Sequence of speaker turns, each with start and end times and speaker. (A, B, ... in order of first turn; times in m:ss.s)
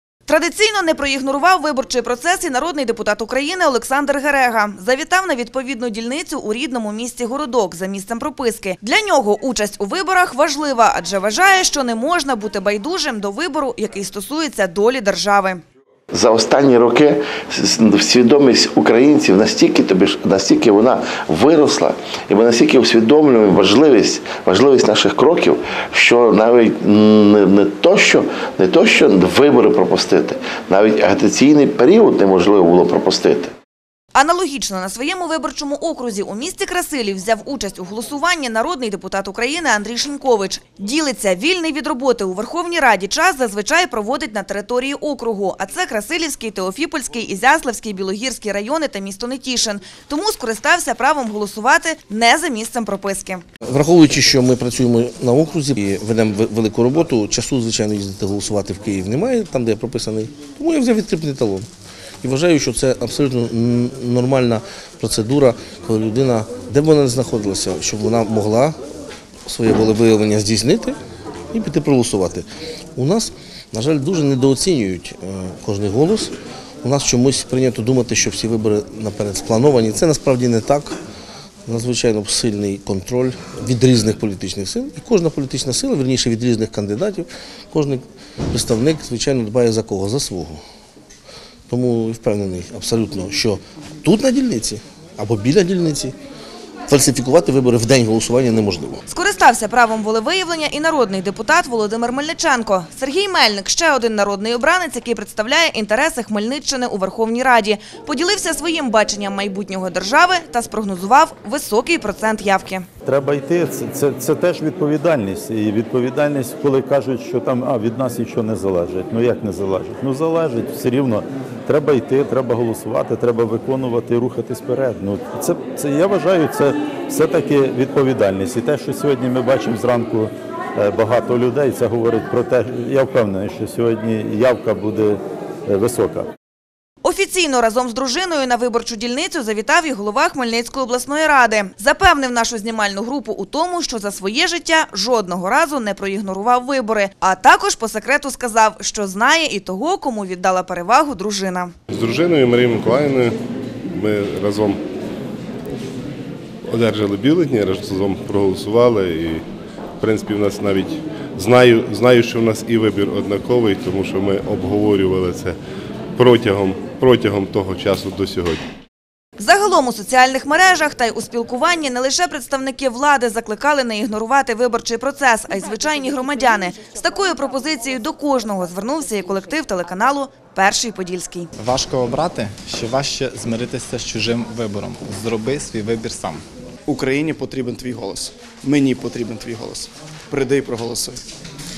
0:00.3-0:15.6 A
0:16.1-0:33.5 B
0:34.1-0:53.4 A
0:53.6-1:01.7 C
1:02.2-1:08.8 C
1:09.5-1:11.0 C
1:11.5-1:21.0 C
1:21.6-1:30.6 C
1:31.7-1:36.1 C
1:36.9-1:39.0 C
1:39.1-1:52.8 A
1:53.0-2:16.3 D
2:17.0-2:31.7 A
2:31.9-2:33.4 E
2:33.9-2:34.8 E
2:36.7-2:39.4 E
2:40.0-2:45.5 E
2:46.2-2:48.6 E
2:49.4-3:01.5 A
3:01.6-3:06.4 F
3:06.9-3:11.2 G